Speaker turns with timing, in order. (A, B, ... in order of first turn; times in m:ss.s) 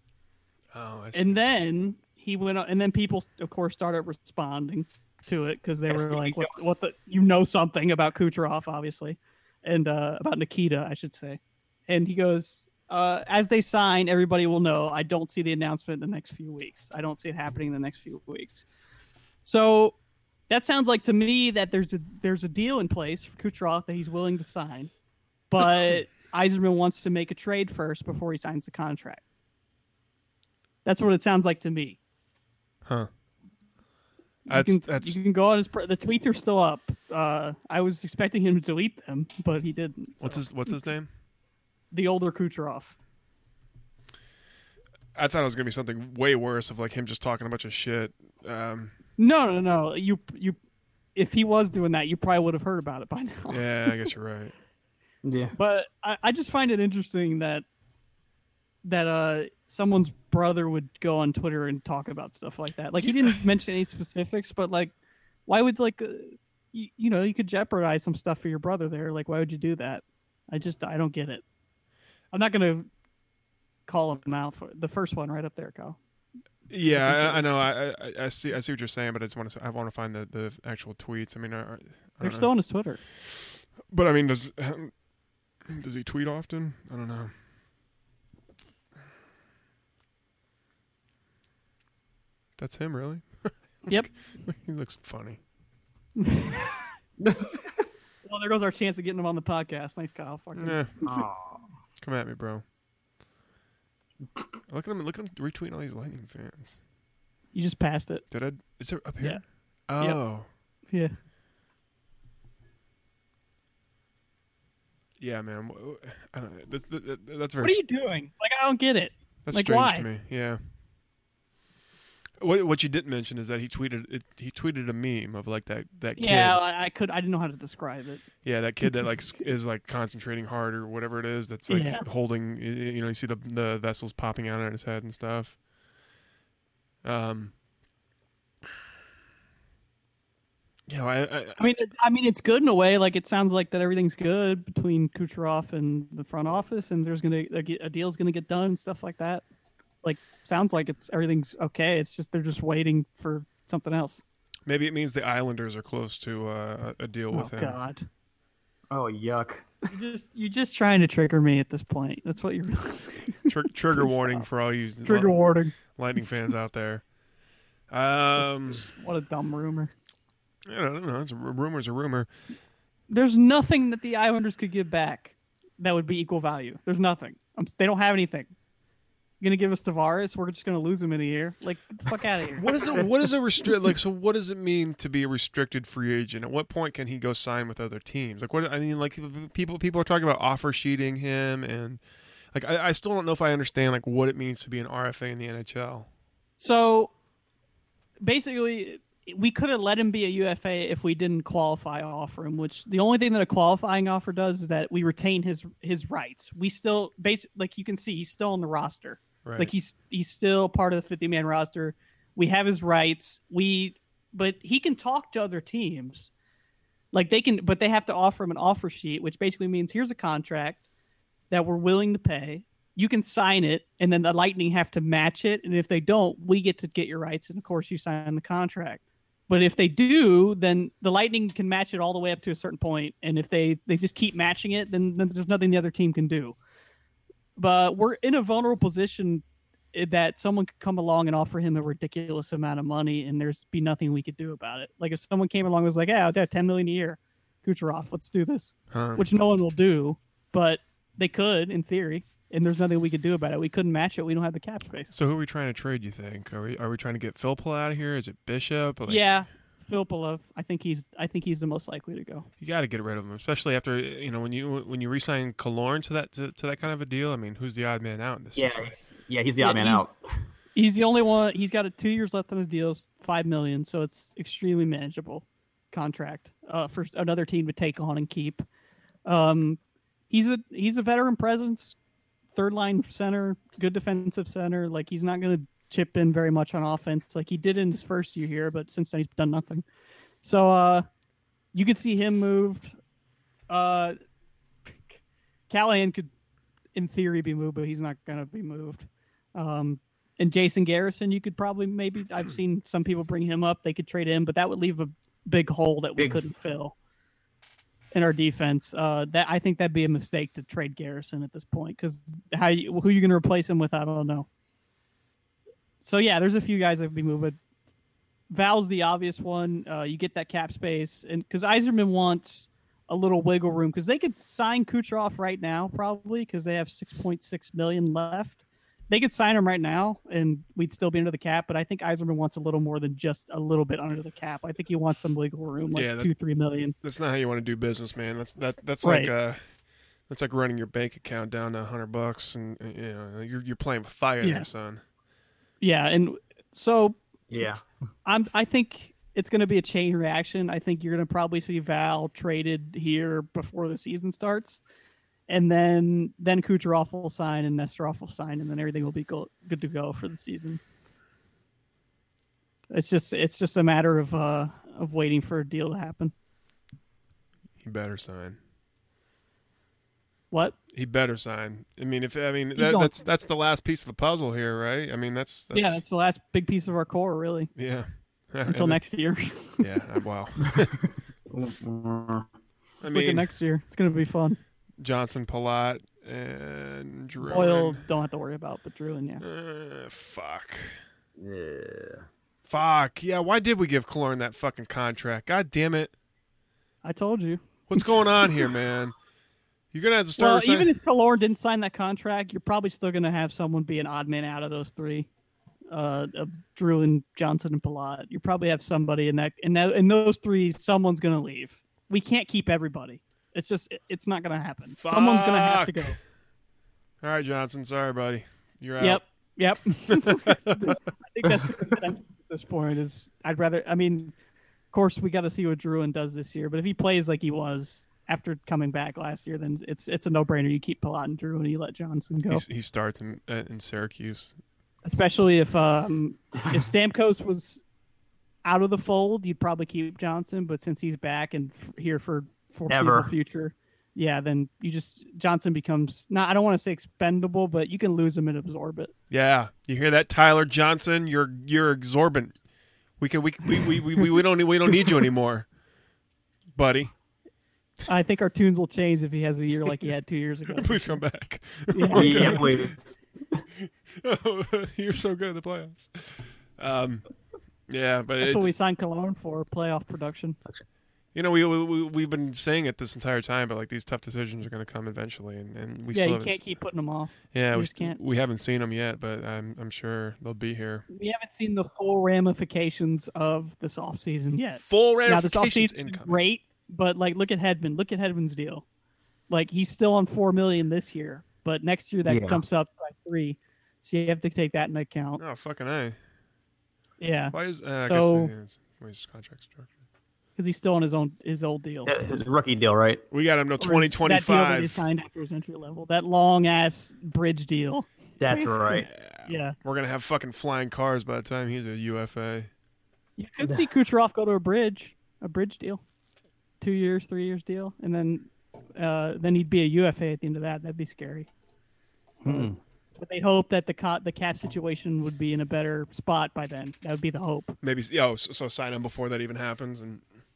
0:00.7-0:01.4 A
0:01.1-0:18.6 B
0:05.9-0:06.6 C
0:19.4-0:20.0 B
0:20.5-0:24.9 B
0:25.5-0:29.2 B
0:30.8-0:32.0 B
0:34.5-0:40.8 B
0:34.5-0:35.2 A
0:40.2-0:41.1 A
0:41.9-0:43.0 B
0:45.2-0:49.0 A
0:49.2-0:50.6 B
0:51.2-0:54.1 B
0:53.5-0:54.5 A
0:55.2-0:55.5 C
0:55.6-0:57.6 B
0:58.8-1:04.9 B
1:03.0-1:03.3 A
1:05.5-1:11.4 B
1:12.3-1:12.9 B
1:13.9-1:16.0 B
1:16.7-1:22.5 A
1:16.8-1:17.6 B
1:22.2-1:23.0 B
1:23.3-1:24.9 A
1:25.6-1:27.3 A
1:32.6-1:35.4 A
1:36.2-1:36.9 B
1:37.2-1:37.7 C
1:38.2-1:41.2 B
1:40.6-1:40.9 A
1:41.0-1:41.6 C
1:42.0-1:42.6 A
1:44.7-1:46.8 A
1:47.5-1:48.2 B
1:48.3-1:50.5 A
1:55.2-1:57.8 A
1:57.6-2:00.1 B
1:59.5-2:00.6 A
2:02.4-2:06.6 A
2:06.2-2:08.2 B
2:08.4-2:15.6 A
2:08.8-2:09.1 B
2:11.7-2:12.0 B
2:17.0-2:17.5 A
2:20.9-2:21.6 A
2:21.6-2:29.4 B
2:30.0-2:34.2 B
2:34.7-2:37.8 A
2:37.3-2:38.0 B
2:38.9-2:39.7 C
2:39.9-2:44.5 B
2:43.5-2:47.0 A
2:45.0-2:45.8 B
2:47.9-2:48.8 A
2:48.3-2:49.9 B
2:50.7-2:52.3 A
2:53.1-2:58.5 B
2:59.4-3:03.9 B
3:02.6-3:12.0 A
3:12.5-3:16.1 A
3:16.6-3:17.1 B
3:18.2-3:36.3 B
3:29.4-3:29.7 A
3:37.1-3:40.8 B
3:41.5-3:56.6 B
3:57.6-4:15.1 B
4:08.9-4:09.2 A
4:15.1-4:19.3 A
4:19.1-4:22.5 B
4:22.6-4:29.0 A
4:28.6-4:30.2 C
4:29.6-4:30.1 B
4:30.8-4:38.6 B
4:39.3-4:39.8 B
4:40.3-4:42.0 B
4:42.5-4:49.8 B
4:50.4-4:51.0 B
4:51.7-4:53.0 B
4:53.7-4:54.2 B
4:54.9-4:55.1 B
4:55.7-4:56.3 B
4:57.0-5:07.0 B
5:06.2-5:06.5 C
5:08.1-5:14.5 B
5:16.0-5:17.6 B
5:18.5-5:37.0 B
5:36.0-5:36.3 A
5:37.0-5:39.6 A
5:39.0-5:39.3 B
5:40.3-5:45.0 A
5:44.4-5:44.7 B
5:45.8-5:47.2 B
5:47.5-5:47.8 C
5:48.3-5:54.8 B
5:55.5-6:00.8 B
6:02.9-6:06.3 B
6:07.8-6:08.6 A
6:10.5-6:10.8 B
6:10.9-6:16.0 A
6:12.8-6:13.2 B
6:15.7-6:17.7 B
6:17.8-6:19.0 A
6:18.6-6:19.9 B
6:19.8-6:21.0 A
6:21.5-6:22.5 C
6:23.0-6:23.5 A
6:23.0-6:24.6 B
6:25.0-6:28.0 A
6:27.4-6:29.4 B
6:29.4-6:31.0 A
6:31.4-6:32.2 C
6:32.7-6:36.1 A
6:37.0-6:38.5 B
6:37.9-6:39.2 A
6:39.9-6:40.9 A
6:40.4-6:45.3 B
6:45.9-6:56.2 B
6:54.9-6:56.2 A
6:57.2-6:59.2 A
6:59.0-7:04.3 B
7:00.1-7:01.0 A
7:04.9-7:12.6 B
7:12.5-7:14.6 A
7:15.0-7:17.8 B
7:18.6-7:29.1 B
7:22.9-7:23.3 C
7:29.3-7:32.6 A
7:33.2-7:35.7 A
7:36.7-7:37.1 A
7:38.1-7:41.2 B
7:40.7-7:42.9 A
7:41.9-7:42.6 B
7:42.1-7:43.6 C
7:43.8-7:47.2 A
7:47.9-7:48.7 A
7:48.4-7:50.6 B
7:51.3-7:56.6 A
7:56.1-7:58.2 B
7:57.5-8:01.1 A
8:01.1-8:08.8 B
8:04.9-8:06.4 A
8:09.5-8:15.4 B
8:12.3-8:12.6 C
8:15.4-8:16.2 A
8:17.2-8:18.5 B
8:17.5-8:19.9 A
8:20.6-8:22.2 B
8:22.1-8:23.2 C
8:23.3-8:25.0 A
8:23.8-8:29.8 B
8:28.4-8:29.1 C
8:29.0-8:32.7 A
8:33.4-8:36.0 B
8:36.8-8:41.5 B
8:42.4-8:42.8 C
8:42.5-8:47.8 B
8:47.8-8:50.2 A